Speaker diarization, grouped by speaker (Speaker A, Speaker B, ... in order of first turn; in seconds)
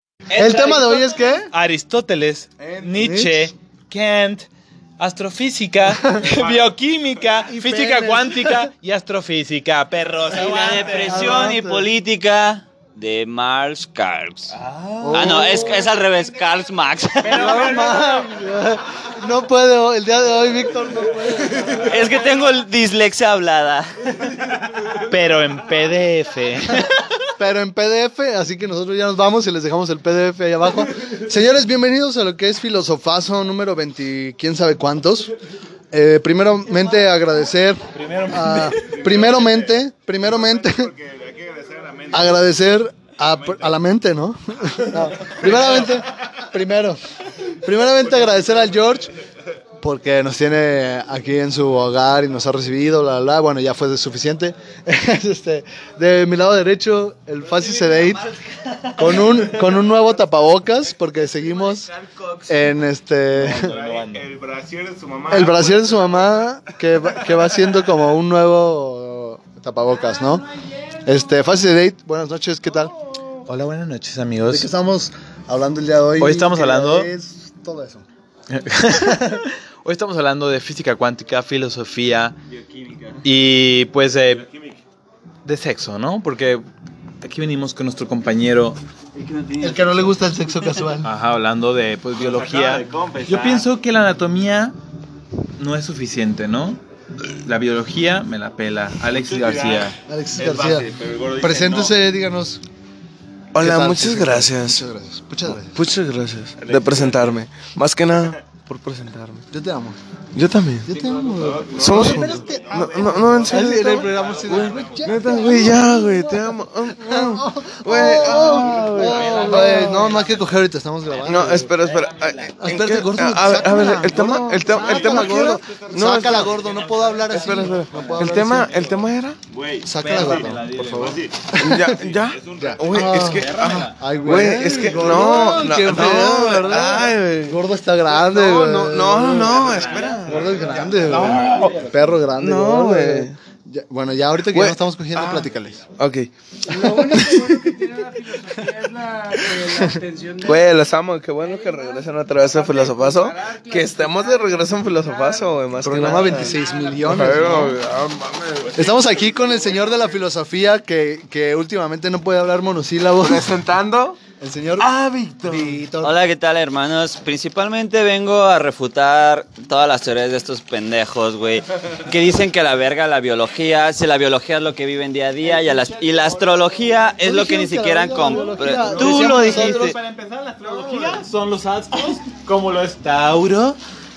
Speaker A: 0.3-1.1, 10.3-14.5, 15.1-17.7, 21.9-23.9, 57.5-59.6, 61.1-62.8, 82.5-83.2, 89.1-90.2, 93.2-93.6, 166.0-180.0
Speaker B: 0.3-1.5, 2.9-3.5, 7.5-8.7, 11.1-11.9, 15.0-15.9, 17.3-22.1, 27.4-35.3, 35.9-40.9, 42.1-47.0, 47.6-49.1, 49.8-58.2, 59.0-61.9, 62.5-63.7, 65.3-70.5, 71.0-72.9, 74.5-78.0, 89.6-91.1, 100.1-100.9, 101.4-102.6, 103.6-105.8, 109.5-110.0, 110.8-121.7, 122.6-128.7, 129.8-130.7, 131.6-132.0, 132.6-139.6, 140.2-145.8, 146.8-147.3, 155.8-157.8, 158.8-163.5, 164.4-164.9, 165.4-166.1, 177.2-180.0
Speaker C: 1.5-4.5, 5.0-11.5, 14.5-15.7, 17.2-18.3, 25.0-27.2, 37.9-38.9, 63.4-64.3, 73.5-74.7, 76.2-77.1, 78.5-82.4, 83.2-84.5, 85.4-86.6, 87.2-88.8, 91.0-94.8, 95.6-100.0, 113.1-115.8, 118.5-120.5, 121.0-123.1, 126.4-129.1, 130.0-131.3, 133.1-135.3, 139.8-140.1, 140.6-142.1, 178.7-183.8
Speaker D: 6.2-6.7, 38.7-42.5, 43.2-43.8, 44.7-46.4, 48.2-48.6, 63.5-66.4, 67.1-67.6, 84.2-84.8, 92.2-93.6, 99.1-102.0, 106.6-107.4, 111.4-115.2, 118.6-120.3, 124.2-127.1, 129.5-133.1, 135.0-135.6, 139.4-141.8, 158.5-159.3, 176.1-176.6, 180.7-181.2
Speaker E: 103.5-104.8, 105.5-109.4, 110.3-111.0, 111.7-120.1, 121.2-126.5, 127.3-129.4, 130.7-131.0, 131.6-137.6, 138.2-140.6, 141.3-141.8, 142.4-143.4, 144.5-147.6, 150.4-158.8, 163.2-164.2, 164.8-165.8
Speaker F: 146.7-150.8, 151.3-157.7, 159.1-160.2